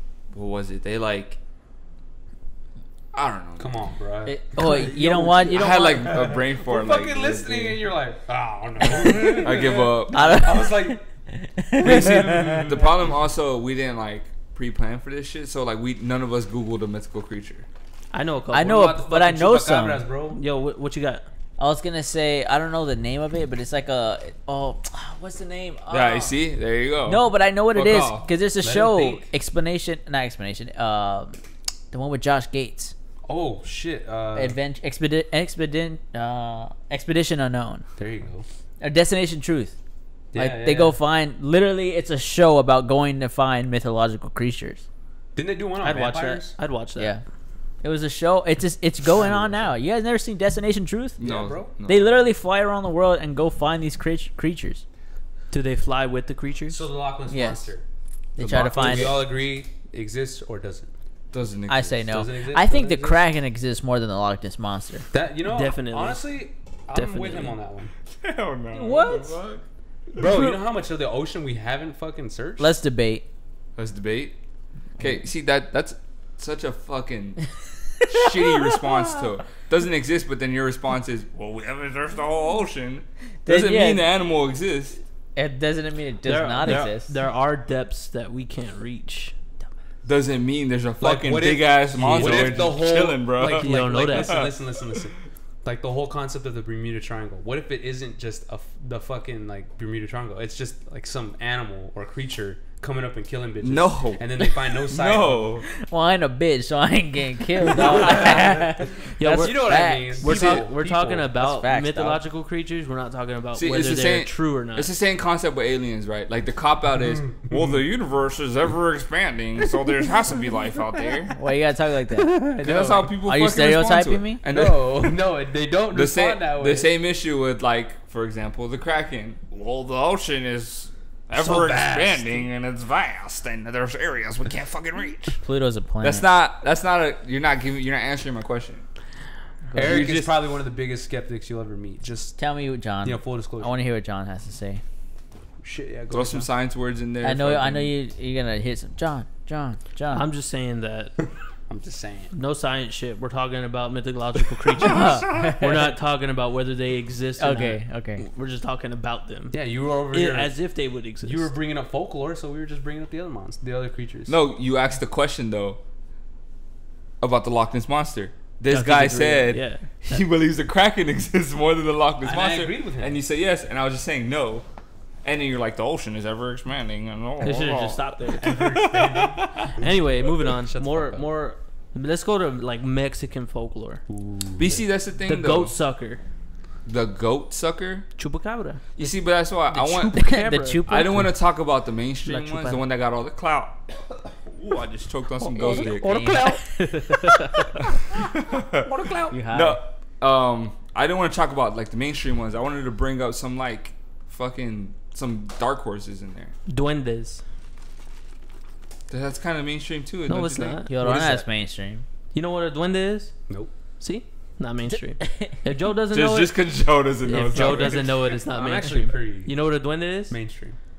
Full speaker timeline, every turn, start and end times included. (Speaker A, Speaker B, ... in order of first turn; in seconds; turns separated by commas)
Speaker A: 0.3-1.4, Speaker A: 3.1-3.8, Speaker B: 3.6-5.4, Speaker C: 4.2-6.2, Speaker D: 4.6-5.3, Speaker A: 5.5-7.8, Speaker B: 6.0-11.0, Speaker A: 9.1-10.5, Speaker C: 9.2-9.5, Speaker C: 10.1-12.7, Speaker B: 11.8-12.9, Speaker A: 11.8-17.7, Speaker D: 18.1-18.8, Speaker C: 18.5-20.1, Speaker B: 18.5-20.4, Speaker D: 20.3-21.2, Speaker C: 21.6-26.4, Speaker A: 25.9-28.3, Speaker C: 27.1-31.4, Speaker B: 28.6-29.3, Speaker C: 31.9-32.9, Speaker B: 33.3-34.6, Speaker C: 34.4-37.9, Speaker B: 38.0-38.5, Speaker C: 38.8-39.8, Speaker B: 40.3-41.0, Speaker C: 40.4-44.8, Speaker B: 45.4-46.5, Speaker D: 45.8-47.1, Speaker C: 47.0-47.2, Speaker C: 47.8-51.2, Speaker B: 49.2-49.6, Speaker A: 51.2-52.1, Speaker B: 51.2-51.7, Speaker C: 51.9-54.8, Speaker D: 55.5-56.8, Speaker B: 56.7-57.8, Speaker C: 57.3-57.7, Speaker C: 58.4-59.3, Speaker B: 58.4-60.9, Speaker A: 58.4-59.2, Speaker A: 61.3-62.0, Speaker C: 61.7-65.0, Speaker B: 62.1-63.2, Speaker B: 65.1-67.9, Speaker D: 65.4-66.3, Speaker D: 66.9-67.6, Speaker A: 68.2-69.6, Speaker C: 68.7-69.4, Speaker B: 70.2-72.8, Speaker C: 72.6-73.2, Speaker A: 73.8-74.3, Speaker A: 75.0-77.4, Speaker A: 78.1-85.0, Speaker C: 83.5-84.1, Speaker C: 85.4-87.1, Speaker D: 86.2-89.3, Speaker A: 90.0-95.0, Speaker B: 91.0-105.5, Speaker D: 92.1-92.6, Speaker D: 93.4-94.5, Speaker A: 103.6-105.7, Speaker C: 105.7-112.2, Speaker B: 107.7-108.7, Speaker D: 109.2-114.9, Speaker B: 109.3-111.3, Speaker A: 113.5-121.3, Speaker C: 121.3-122.6, Speaker B: 122.4-123.1, Speaker A: 122.6-125.3, Speaker C: 123.2-124.4, Speaker B: 124.5-126.9, Speaker A: 125.9-135.4, Speaker B: 131.4-132.4, Speaker C: 135.4-136.3, Speaker A: 136.0-138.8, Speaker C: 139.7-140.0, Speaker B: 139.7-142.4, Speaker A: 139.8-140.4, Speaker C: 142.4-144.8, Speaker B: 143.0-143.8, Speaker B: 145.6-146.5, Speaker A: 146.1-147.9, Speaker C: 147.2-150.3, Speaker D: 150.1-151.2, Speaker B: 151.7-152.3, Speaker D: 152.3-161.5, Speaker C: 154.8-155.9, Speaker C: 157.4-158.2, Speaker B: 159.5-160.6, Speaker B: 161.2-164.4, Speaker A: 164.3-165.8, Speaker A: 167.2-174.7, Speaker D: 168.7-170.2, Speaker B: 172.2-173.2, Speaker A: 175.2-179.8, Speaker D: 177.4-178.7, Speaker B: 178.4-179.8, Speaker D: 179.7-184.0, Speaker B: 180.6-181.3, Speaker B: 184.1-184.8, Speaker A: 184.6-185.8, Speaker D: 185.3-186.2, Speaker A: 186.9-188.1, Speaker D: 188.2-188.8, Speaker A: 189.0-190.2, Speaker C: 189.8-191.4, Speaker D: 189.8-190.8, Speaker A: 190.9-196.3, Speaker D: 192.3-192.8, Speaker D: 195.4-197.7, Speaker C: 195.6-197.5, Speaker A: 198.1-206.5, Speaker C: 199.3-199.8, Speaker D: 206.7-207.4, Speaker A: 209.1-210.8, Speaker D: 210.3-210.9, Speaker C: 210.9-212.1, Speaker B: 211.0-211.5, Speaker D: 212.3-213.3, Speaker D: 214.0-216.6, Speaker C: 215.2-215.5, Speaker A: 216.1-218.2, Speaker D: 217.2-220.4, Speaker B: 217.5-219.6, Speaker B: 220.3-220.8